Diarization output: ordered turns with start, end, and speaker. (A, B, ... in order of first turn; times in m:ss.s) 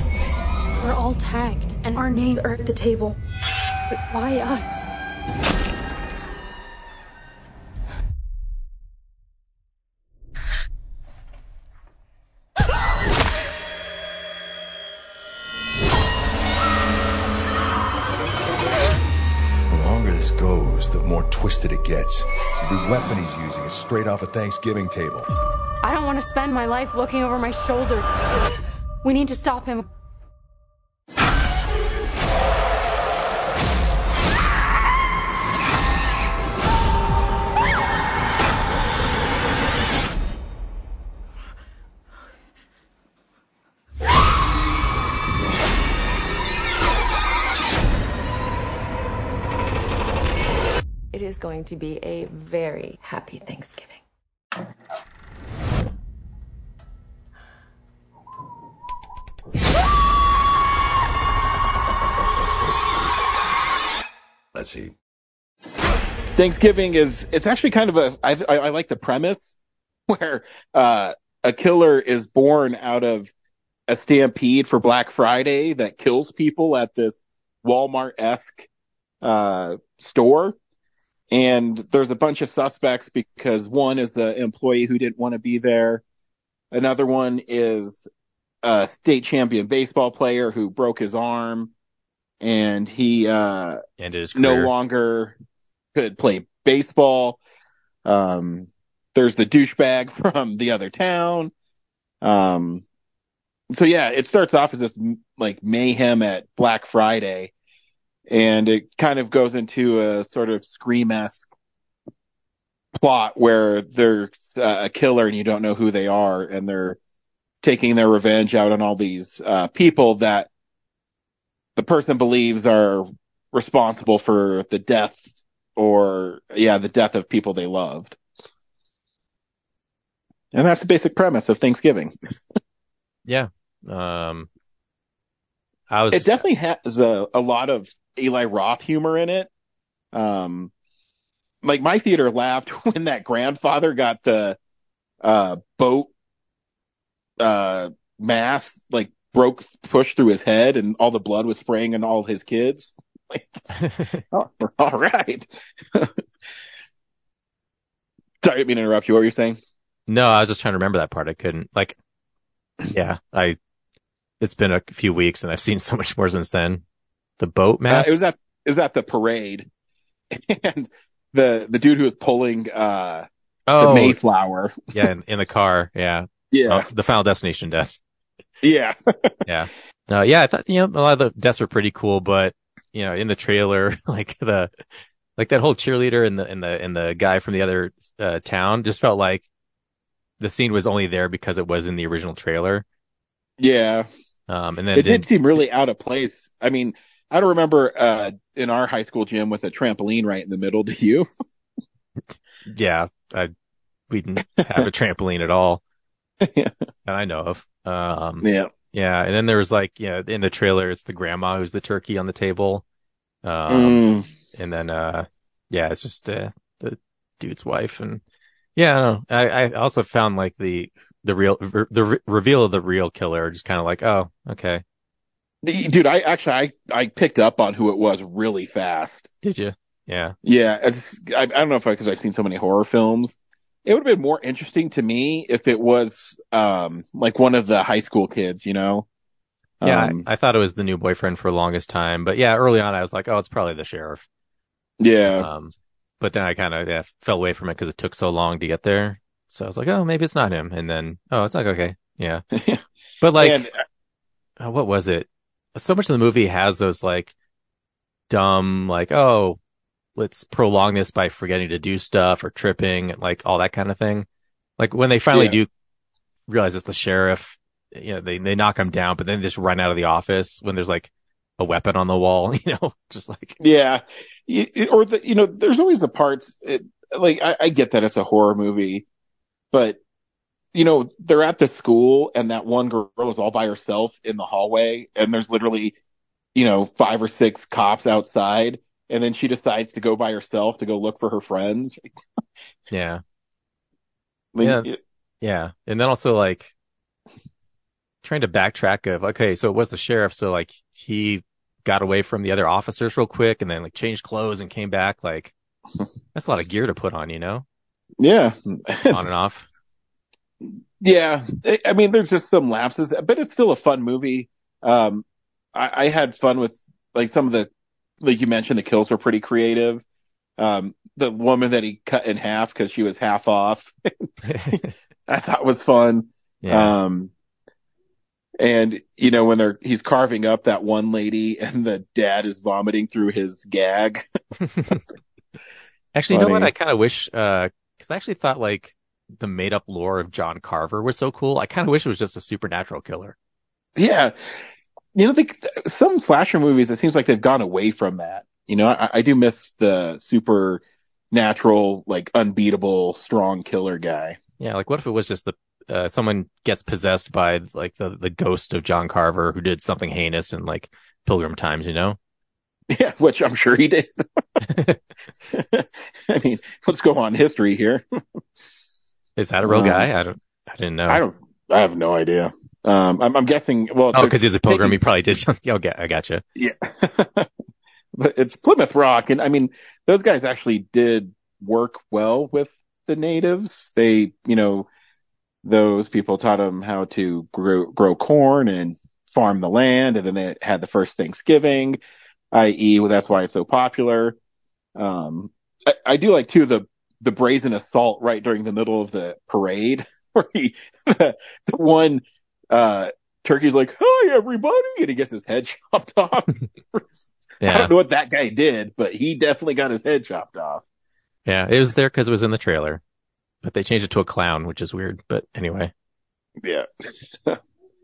0:00.8-0:03.2 A
0:03.9-0:04.8 A
0:19.7-0:25.3 B
0:25.8-0:28.1 A
0:29.0-0:29.9 A
0:51.1-0:54.0 C
1:02.3-1:03.2 B
1:04.5-1:04.9 B
1:06.4-1:09.5 D
1:10.1-1:13.3 D
1:13.9-1:18.7 D
1:19.2-1:20.6 D
1:21.3-1:26.0 D
1:26.7-1:28.0 D
1:28.6-1:31.7 D
1:32.4-1:33.8 D
1:34.0-1:34.7 E
1:34.4-1:35.4 D
1:35.9-1:37.4 D
1:38.0-1:41.5 D
1:42.2-1:42.8 D
1:43.7-1:47.5 D
1:48.3-1:51.5 D
1:53.0-1:57.0 D
1:57.6-2:00.5 D
2:01.8-2:08.2 D
2:10.5-2:12.1 D
2:13.3-2:14.5 E
2:15.9-2:16.4 E
2:16.1-2:19.5 D
2:20.1-2:20.7 D
2:21.6-2:24.6 D
2:25.2-2:26.1 D
2:27.4-2:33.6 D
2:33.8-2:34.2 E
2:34.3-2:36.2 D
2:38.4-2:39.6 D
2:40.1-2:42.0 E
2:42.9-2:43.6 E
2:44.4-2:46.8 E
2:47.4-2:48.2 E
2:47.9-2:49.7 D
2:50.3-2:54.8 D
2:53.7-2:54.2 E
2:54.9-2:58.0 E
2:56.5-2:56.8 D
2:58.6-2:59.4 D
2:59.5-3:04.7 E
3:05.4-3:09.4 E
3:10.4-3:12.8 E
3:13.6-3:14.1 D
3:14.5-3:15.3 E
3:14.9-3:21.3 D
3:22.6-3:23.5 E
3:24.1-3:25.8 E
3:26.4-3:26.7 D
3:27.0-3:32.8 E
3:28.4-3:28.7 D
3:33.4-3:38.2 E
3:33.7-3:34.3 D
3:38.8-3:44.8 E
3:45.6-3:49.3 D
3:49.4-3:50.3 E
3:50.4-3:59.1 D
3:59.8-4:00.3 D
3:59.8-4:04.2 E
4:05.0-4:05.5 D
4:05.3-4:12.4 E
4:12.5-4:12.8 D
4:13.2-4:13.7 E
4:13.4-4:13.8 D
4:14.6-4:17.3 E
4:18.3-4:19.6 E
4:20.2-4:24.3 E
4:24.8-4:25.7 E
4:25.3-4:25.6 D
4:26.5-4:33.6 E
4:33.6-4:39.0 D
4:39.7-4:40.0 D
4:40.7-4:46.0 D
4:46.5-4:52.0 D
4:52.9-4:53.2 E
4:54.5-4:55.0 D
4:54.6-4:54.9 E
4:55.4-4:56.7 E
4:58.2-5:05.5 E
5:06.3-5:07.6 E
5:08.2-5:09.2 D
5:09.1-5:09.7 E
5:10.6-5:17.7 D
5:18.2-5:20.0 D
5:20.6-5:27.3 D
5:24.4-5:24.9 E
5:26.6-5:26.9 E
5:28.6-5:34.3 D
5:34.7-5:35.0 E
5:36.1-5:43.4 E
5:36.3-5:36.7 D
5:44.0-5:44.6 D
5:45.1-5:54.4 D
5:54.6-6:02.2 E
6:02.9-6:04.2 D
6:04.7-6:05.0 E
6:05.5-6:08.0 D
6:09.4-6:11.2 E
6:09.6-6:10.1 D
6:11.1-6:15.0 D
6:14.1-6:16.4 E
6:16.6-6:17.5 D
6:18.1-6:24.9 D
6:25.6-6:32.0 D
6:32.5-6:34.4 D
6:35.0-6:47.1 D
6:47.6-6:47.9 E
6:47.6-6:50.8 D
6:51.4-6:53.0 E
6:53.6-6:55.9 E
6:56.6-6:56.9 D